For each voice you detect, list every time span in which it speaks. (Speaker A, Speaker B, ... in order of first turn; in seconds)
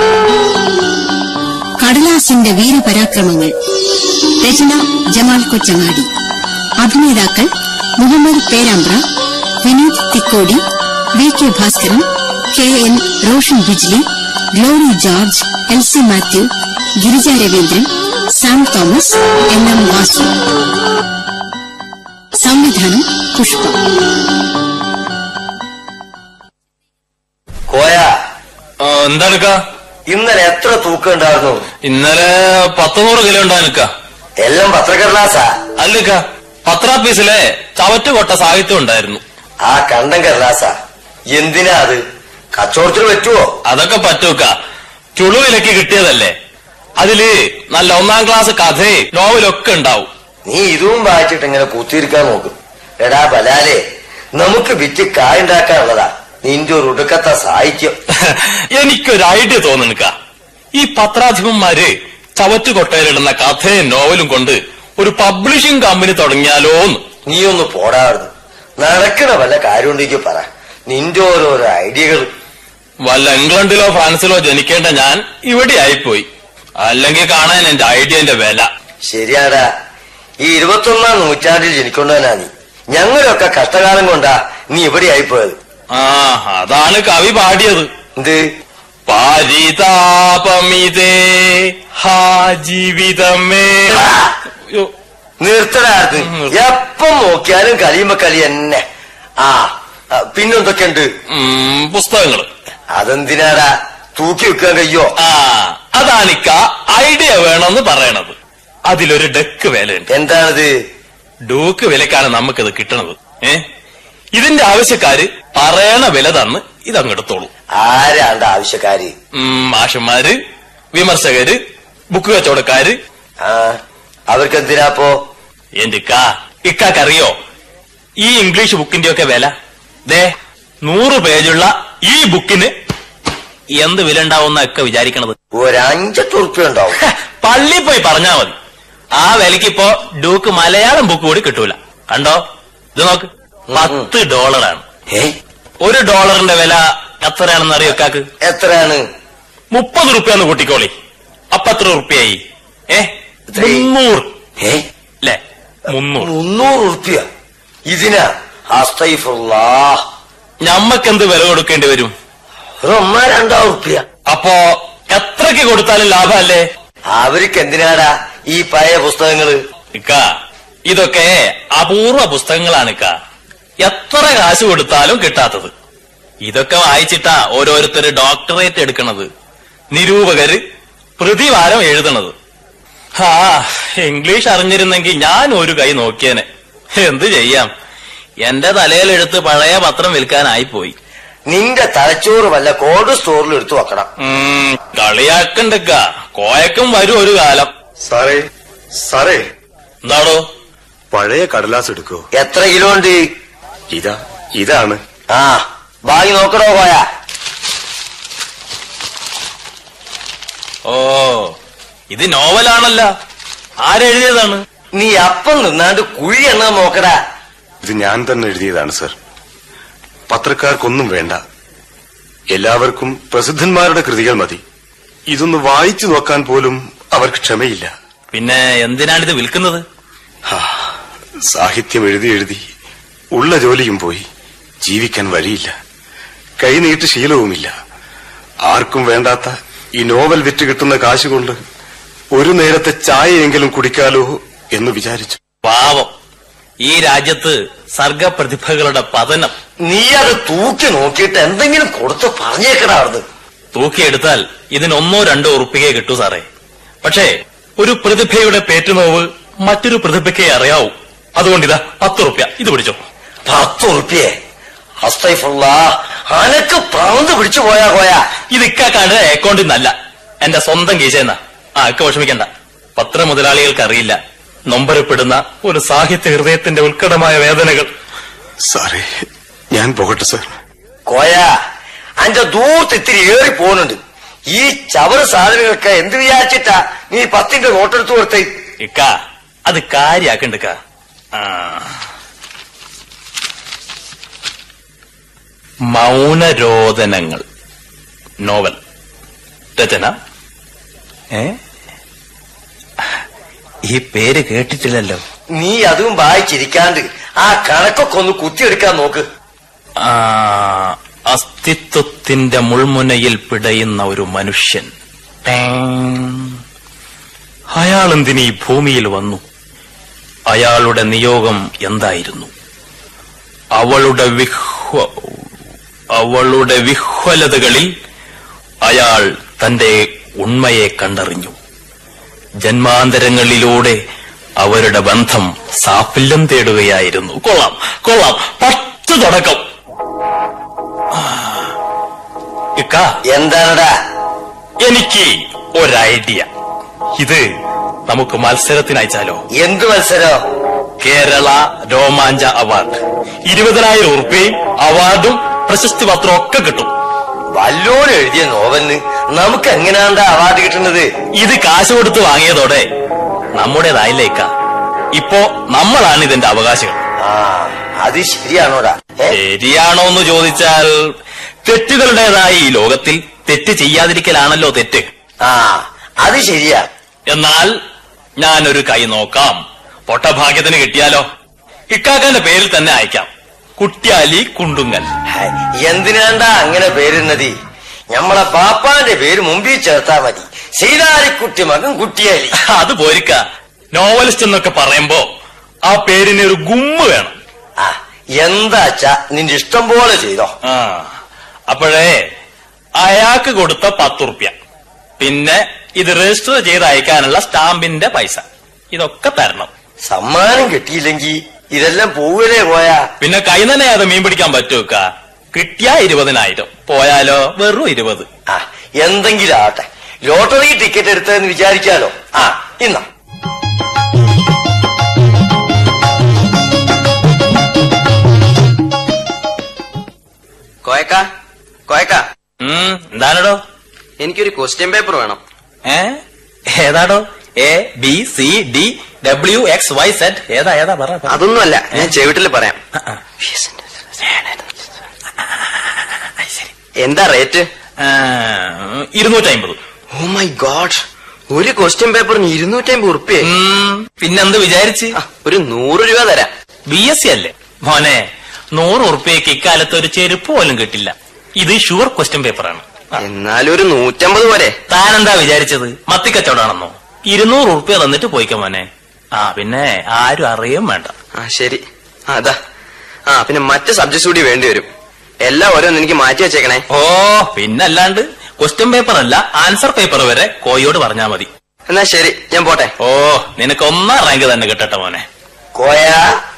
Speaker A: 1.8-3.5, 4.4-6.1, 6.8-9.0, 9.6-10.6, 11.2-20.3, 22.4-23.8
Speaker B: 27.7-28.1, 30.1-31.6, 34.4-35.5, 39.6-40.7, 41.3-42.0, 42.5-43.4, 50.5-53.8, 54.3-57.9, 67.3-72.3, 79.1-79.7, 80.4-85.5, 88.2-88.4, 93.9-94.3, 95.4-98.8, 99.4-101.1, 102.9-105.1, 110.1-110.7, 117.8-119.1, 123.4-123.8, 124.3-125.1, 135.5-137.0, 143.7-144.1, 148.4-149.0, 153.5-153.9, 156.2-157.2, 157.9-160.0, 162.8-164.0, 167.1-169.6, 191.5-194.1, 198.1-198.4, 199.0-199.4, 202.3-203.2, 205.3-207.0, 214.9-217.2, 249.9-253.2, 263.5-264.3, 265.0-268.2, 281.1-281.5, 282.2-284.0, 284.5-288.5, 305.6-309.2, 343.3-343.9, 349.6-350.4, 357.6-361.1, 367.2-369.4, 375.4-376.9, 385.3-387.5, 388.1-392.5, 397.8-400.5, 410.1-413.0, 418.5-423.1, 485.8-486.2
Speaker C: 28.8-29.6, 31.8-33.9, 35.8-39.2, 43.7-44.5, 45.1-46.3, 47.0-50.1, 58.2-60.1, 60.7-67.0, 73.0-76.3, 76.8-78.7, 85.9-87.9, 89.1-94.1, 96.2-96.5, 101.3-102.5, 105.2-108.3, 108.9-110.1, 111.5-113.6, 114.3-117.5, 119.3-120.3, 120.9-121.6, 122.1-123.0, 125.8-127.3, 128.2-129.5, 130.8-132.7, 133.8-135.3, 137.0-138.5, 139.2-142.4, 142.9-144.8, 145.8-148.2, 149.7-150.9, 151.5-152.4, 152.9-154.3, 155.9-156.3, 160.6-162.1, 164.3-166.7, 169.9-170.2, 170.9-173.1, 173.8-175.7, 176.4-179.3, 179.9-180.6, 181.2-182.3, 183.2-186.4, 187.0-187.7, 188.4-190.9, 194.2-197.7, 200.0-200.4, 210.9-211.5, 212.1-213.1, 213.8-214.6, 228.3-229.8, 245.7-246.1, 246.8-249.5, 253.7-256.4, 257.0-263.0, 268.5-274.2, 274.7-277.9, 288.8-289.1, 289.7-290.8, 291.4-291.9, 295.9-297.4, 298.4-298.8, 299.8-300.1, 303.9-305.2, 310.0-314.9, 315.4-316.6, 317.8-319.4, 320.5-322.5, 323.8-325.4, 326.2-327.9, 328.9-331.5, 332.6-334.0, 334.6-339.6, 341.1-341.8, 342.8-343.1, 344.8-346.5, 347.2-347.4, 348.1-349.4, 351.0-356.9, 361.4-362.9, 363.6-364.5, 365.1-367.0, 369.3-370.9, 371.6-375.1, 377.3-377.7, 378.4-381.2, 381.9-385.1, 392.7-393.4, 393.9-395.2, 395.9-397.4, 400.7-401.1, 401.7-402.2, 403.0-404.5, 405.2-409.7, 413.2-418.3, 432.6-433.6, 435.9-436.2, 436.7-441.3, 446.4-446.7, 448.0-449.8, 453.5-455.1, 456.9-458.2, 458.8-463.2, 464.9-471.1, 476.9-481.5, 483.0-485.2
Speaker D: 201.1-202.2, 203.9-205.0, 217.8-219.2, 220.3-221.4, 222.5-224.6, 225.3-227.9, 230.5-230.9, 231.4-232.7, 233.3-234.3, 234.8-235.7, 236.6-237.7, 238.7-241.6, 242.3-245.4, 278.7-279.1, 279.7-280.5
Speaker E: 430.8-431.3, 431.9-432.3, 434.2-435.4, 441.3-442.8, 443.4-444.7, 447.0-447.7, 450.1-453.5, 455.2-456.5, 463.2-464.8, 471.4-472.6, 473.3-474.9, 475.4-476.8, 481.9-482.9